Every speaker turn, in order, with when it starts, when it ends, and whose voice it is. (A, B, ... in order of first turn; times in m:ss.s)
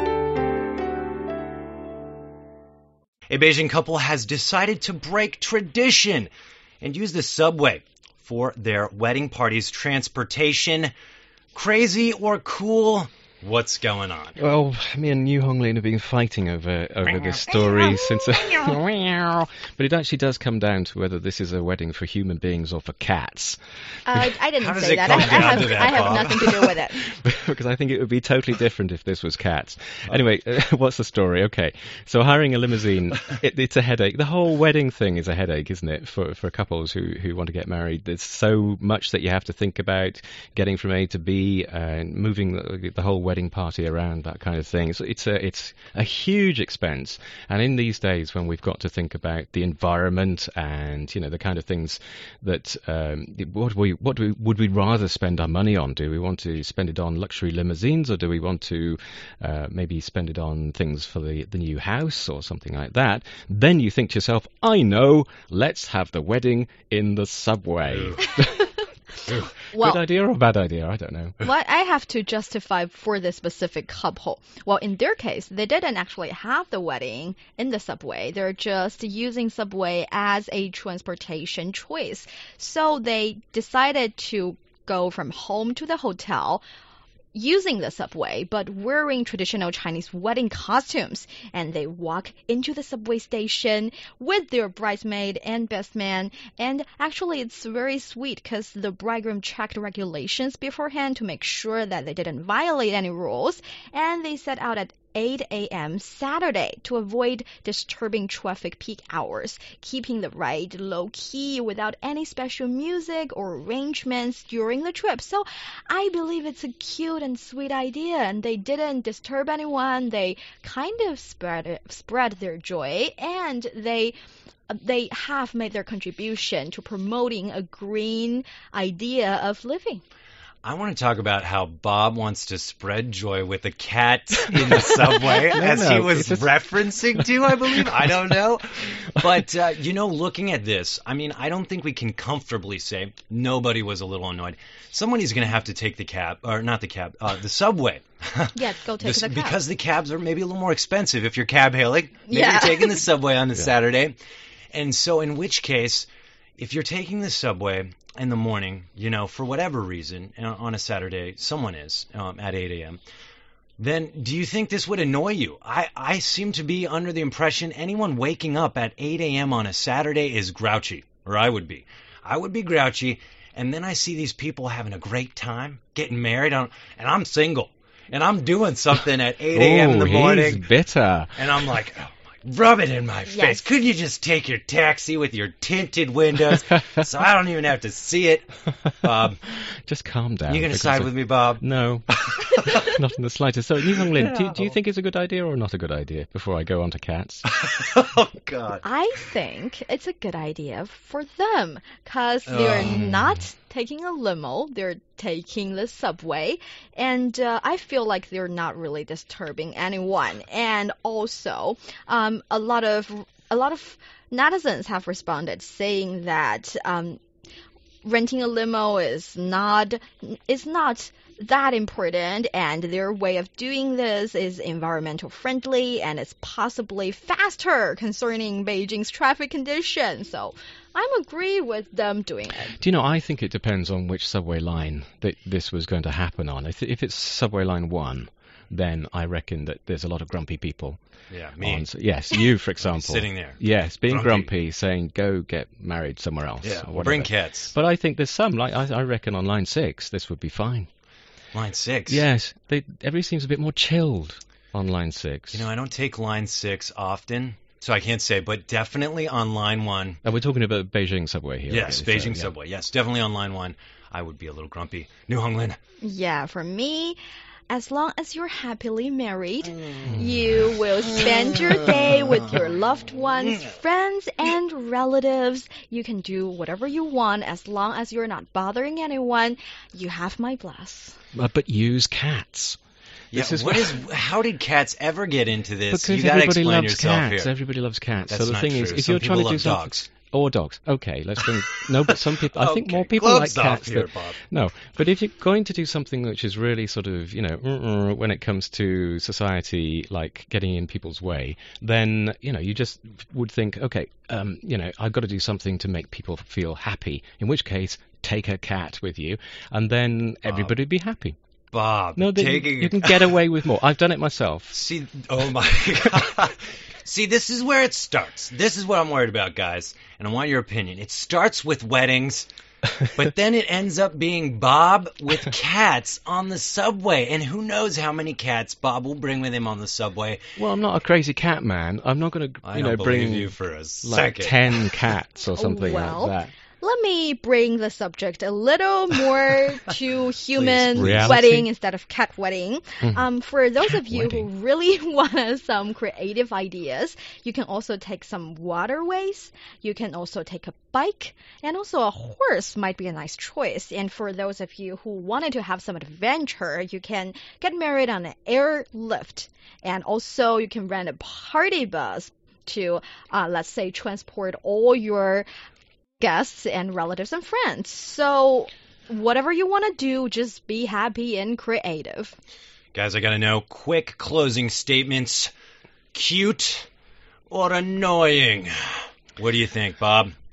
0:03.3-0:06.3 A
0:06.8-0:10.9 A
0:11.5-0:14.4 A
0:14.4-0:23.6 B
0:17.0-0:18.7 A
0:24.0-0:27.0 C
0:24.6-0:26.7 A
0:27.1-1:08.7 B
1:07.9-1:08.2 A
1:09.7-1:10.0 C
1:09.7-1:11.4 B
1:11.4-1:26.6 C
1:27.3-2:04.1 C
2:04.7-2:10.0 C
2:10.6-2:34.2 A
2:14.5-2:18.2 B
2:28.5-2:29.6 C
2:32.3-2:33.0 C
2:34.7-2:43.0 A
2:43.8-3:00.7 A
2:59.5-3:01.5 B
3:01.4-3:09.4 A
3:03.3-3:03.6 C
3:09.8-3:17.4 B
3:10.5-3:12.7 A
3:14.1-3:14.7 A
3:17.5-3:18.8 A
3:18.8-3:37.2 C
3:22.5-3:23.3 A
3:38.0-3:52.8 C
3:52.8-4:01.0 B
4:01.3-4:01.9 A
4:01.6-4:10.9 B
4:02.8-4:04.5 A
4:06.6-4:07.7 A
4:11.5-4:12.2 A
4:12.1-4:15.6 B
4:15.5-4:20.2 A
4:20.2-4:22.5 B
4:21.7-4:25.8 A
4:26.0-4:27.2 C
4:27.7-4:41.2 C
4:41.3-4:42.8 B
4:43.3-4:44.0 B
4:43.3-4:47.5 A
4:45.9-5:11.4 B
4:48.3-4:50.1 A
4:52.5-4:54.4 A
5:11.7-5:13.3 A
5:12.2-5:14.8 B
5:14.7-5:22.5 A
5:23.1-5:30.4 A
5:30.6-5:36.5 B
5:32.6-5:35.0 A
5:35.5-6:05.5 C
5:40.5-5:41.4 A
5:41.0-5:41.7 B
5:43.9-5:44.5 B
6:06.2-6:12.4 C
6:12.9-6:15.5 A
6:16.1-6:16.9 A
6:17.5-6:20.4 A